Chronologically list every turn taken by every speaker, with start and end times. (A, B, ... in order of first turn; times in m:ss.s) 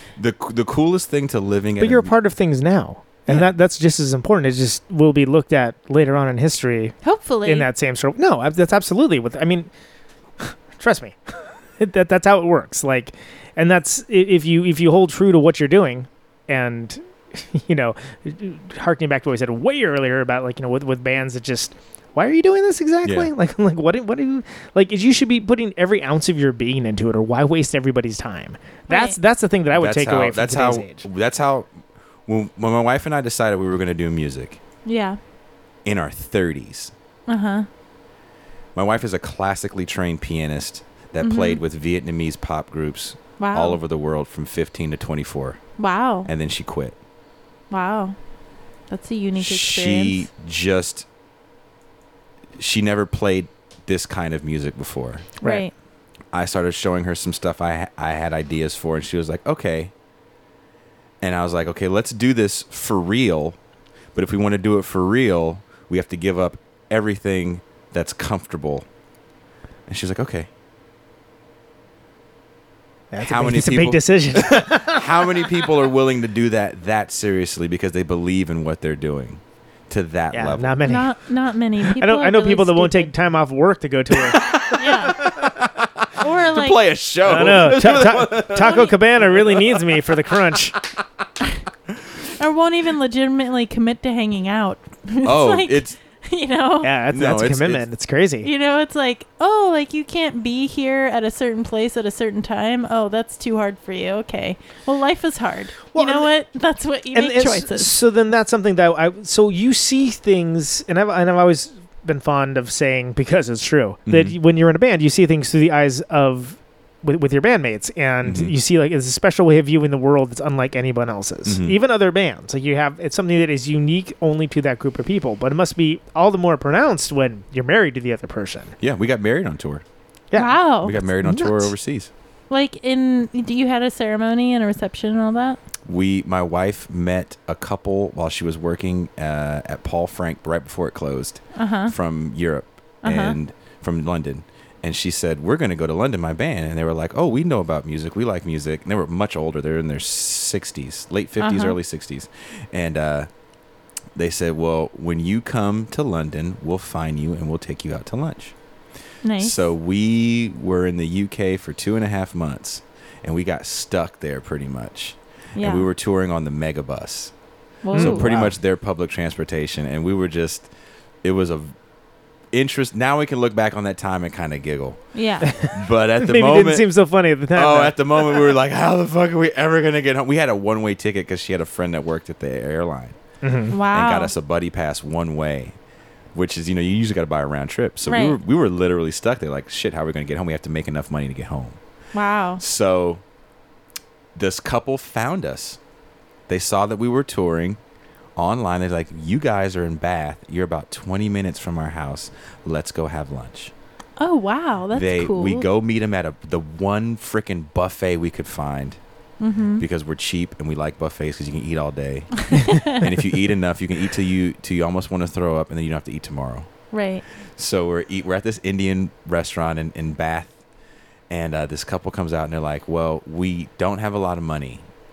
0:00.2-0:02.1 A
0:01.8-0:09.7 B
0:03.3-0:03.5 A
0:07.0-0:07.7 C
0:10.4-0:11.2 B
0:11.8-0:31.0 B
0:23.0-0:23.3 A
0:28.9-0:29.2 C
0:29.7-0:31.7 A
0:32.2-0:34.6 A
0:34.8-0:35.2 C
0:35.8-0:36.9 A
0:37.3-0:37.7 C
0:38.7-0:45.6 A
0:41.2-0:41.6 C
0:43.4-0:43.8 C
0:45.8-0:46.3 C
0:46.2-0:47.0 A
0:47.7-0:48.2 C
0:48.9-0:50.3 C
0:49.4-0:51.1 A
0:52.6-0:55.3 A
0:55.4-0:55.7 C
0:56.3-0:59.9 A
1:01.2-1:03.6 A
1:04.1-1:08.8 A
1:09.9-1:10.5 A
1:13.1-1:15.5 B
1:13.2-1:20.8 A
1:20.3-1:21.1 B
1:20.8-1:23.1 C
1:21.9-1:24.6 B
1:24.2-1:30.0 A
1:24.7-1:25.2 C
1:26.2-1:26.8 C
1:27.2-1:30.8 B
1:28.6-1:28.9 C
1:32.4-1:36.9 C
1:35.2-1:36.0 A
1:36.8-1:38.5 B
1:37.1-1:37.9 A
1:38.4-1:48.0 C
1:45.9-1:46.3 B
1:47.1-2:08.7 B
1:54.1-1:54.4 A
1:58.2-1:58.5 A
2:01.4-2:01.8 A
2:08.8-2:09.8 A
2:10.3-2:11.7 B
2:10.4-2:10.9 C
2:10.8-2:12.1 A
2:12.5-2:15.6 C
2:15.8-2:33.3 A
2:21.5-2:21.9 C
2:23.0-2:23.4 C
2:31.4-2:31.8 C
2:34.2-2:38.5 A
2:39.2-2:39.6 C
2:39.4-2:47.3 A
2:45.6-2:45.9 C
2:47.8-2:48.3 C
2:47.9-2:48.5 B
2:47.9-2:50.7 A
2:51.2-2:51.7 A
2:52.5-2:55.0 A
2:55.1-2:55.5 C
2:55.5-2:58.5 B
2:55.6-2:56.9 A
2:57.5-3:03.2 A
3:03.4-3:03.7 B
3:03.7-3:04.3 C
3:03.9-3:05.8 A
3:06.3-3:11.8 A
3:08.0-3:08.4 C
3:12.1-3:12.6 C
3:12.6-3:13.2 A
3:14.3-3:15.8 A
3:16.5-3:17.8 A
3:18.4-3:23.7 A
3:24.2-3:25.7 C
3:24.9-3:29.0 A
3:29.4-3:29.8 C
3:29.8-3:36.7 A
3:32.5-3:33.0 C
3:36.9-3:37.2 C
3:37.6-3:40.5 A
3:41.3-3:44.8 A